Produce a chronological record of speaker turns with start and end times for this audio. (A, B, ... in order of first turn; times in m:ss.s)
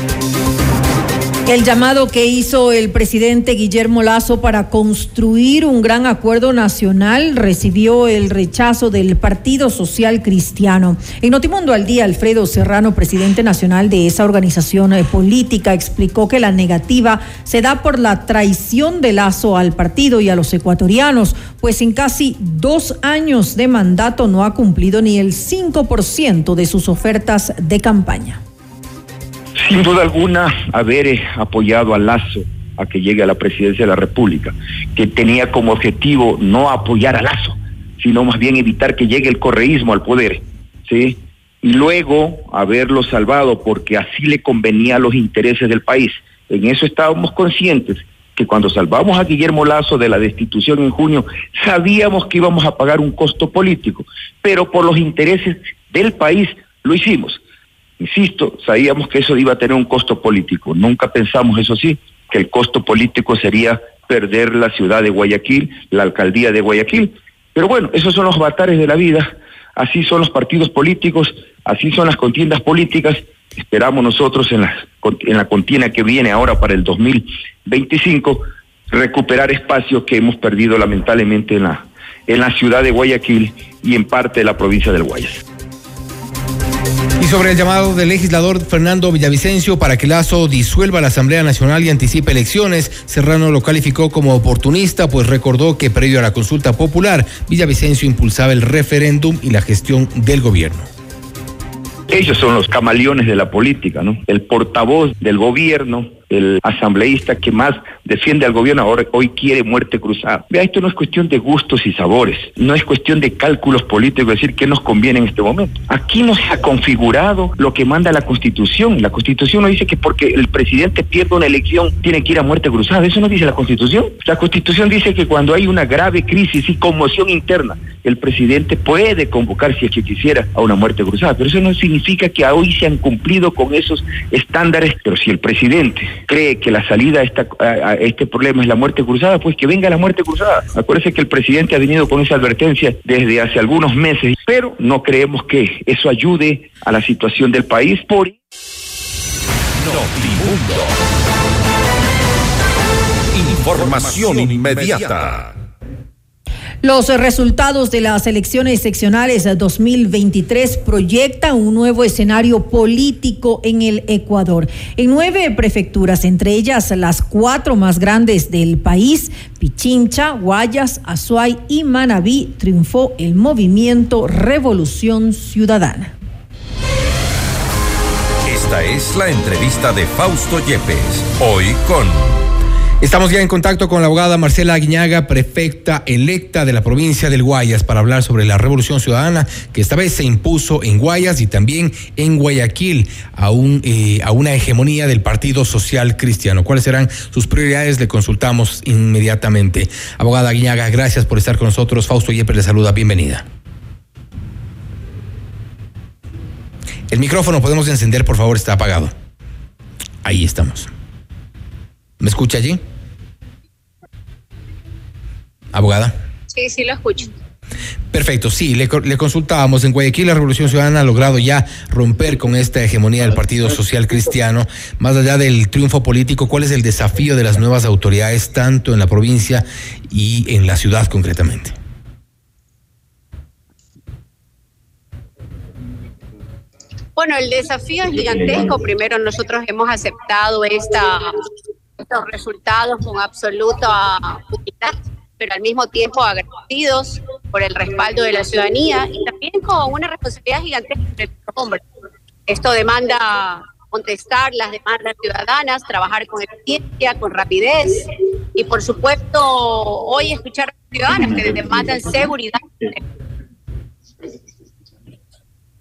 0:01.5-0:28.4 A
0:29.6-0:57.4 B
0:58.0-1:25.4 B
1:27.2-1:40.9 C
1:42.1-2:28.3 B
2:29.8-2:31.0 D
2:33.3-2:35.6 D
2:36.8-2:56.1 A
2:58.4-3:02.4 D
3:03.0-3:23.4 C
3:27.1-3:29.1 C
3:30.2-3:30.9 C
3:32.2-3:32.8 C
3:35.7-3:36.1 C
3:36.7-3:37.2 E
3:38.1-3:51.7 C
3:57.4-4:00.8 E
4:02.4-4:04.1 E
4:05.4-4:11.7 E
4:12.6-4:13.4 E
4:14.0-4:17.7 E
4:18.6-4:19.4 E
4:20.2-4:22.5 E